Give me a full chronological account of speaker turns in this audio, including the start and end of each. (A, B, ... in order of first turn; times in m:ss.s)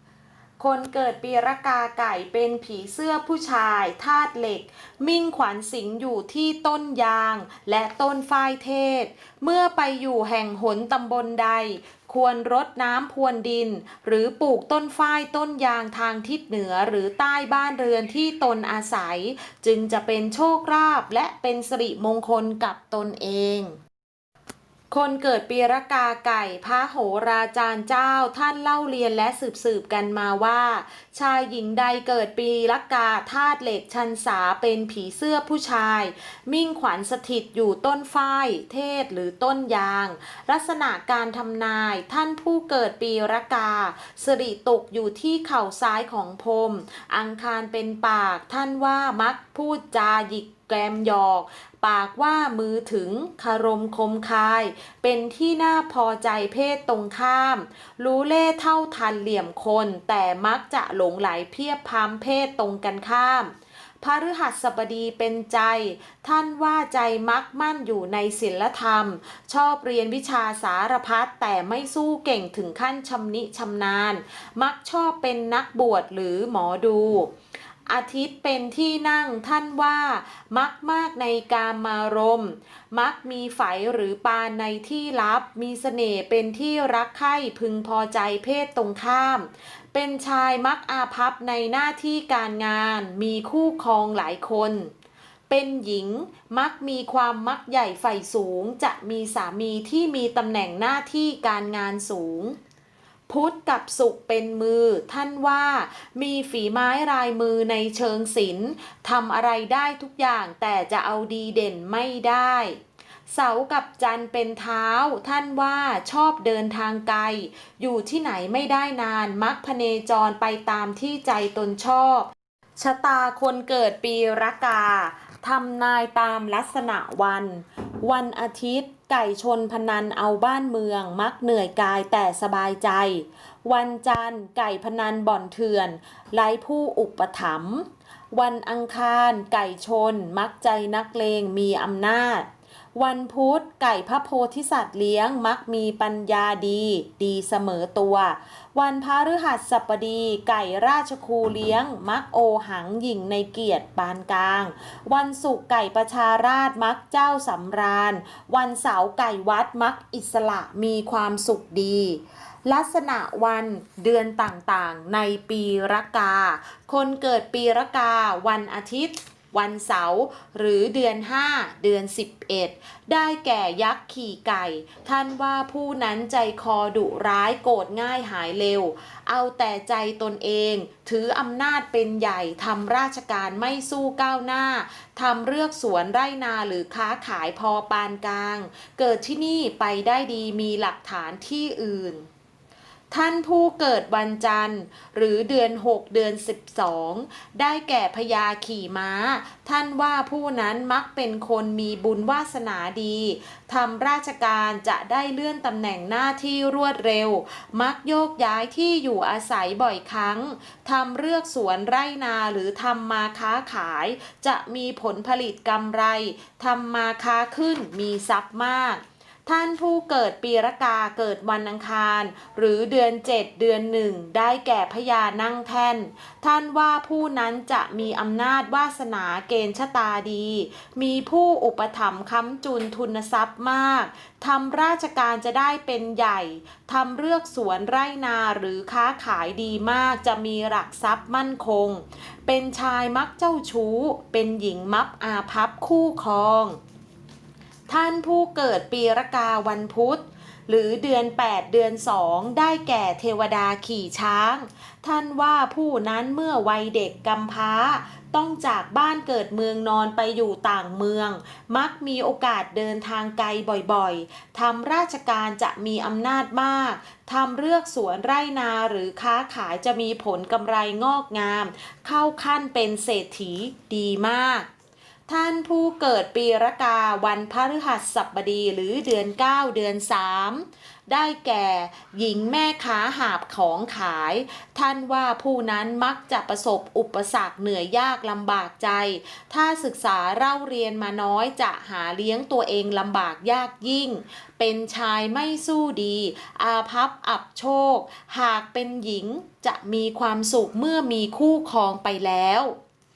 0:00.6-0:23.8 A
0:24.9-1:17.3 A
1:17.9-1:34.9 A
1:35.5-1:42.6 A
1:43.3-1:52.8 A
1:53.3-3:12.2 A
3:13.1-4:06.8 A
4:07.9-4:34.7 A
4:35.3-5:02.7 A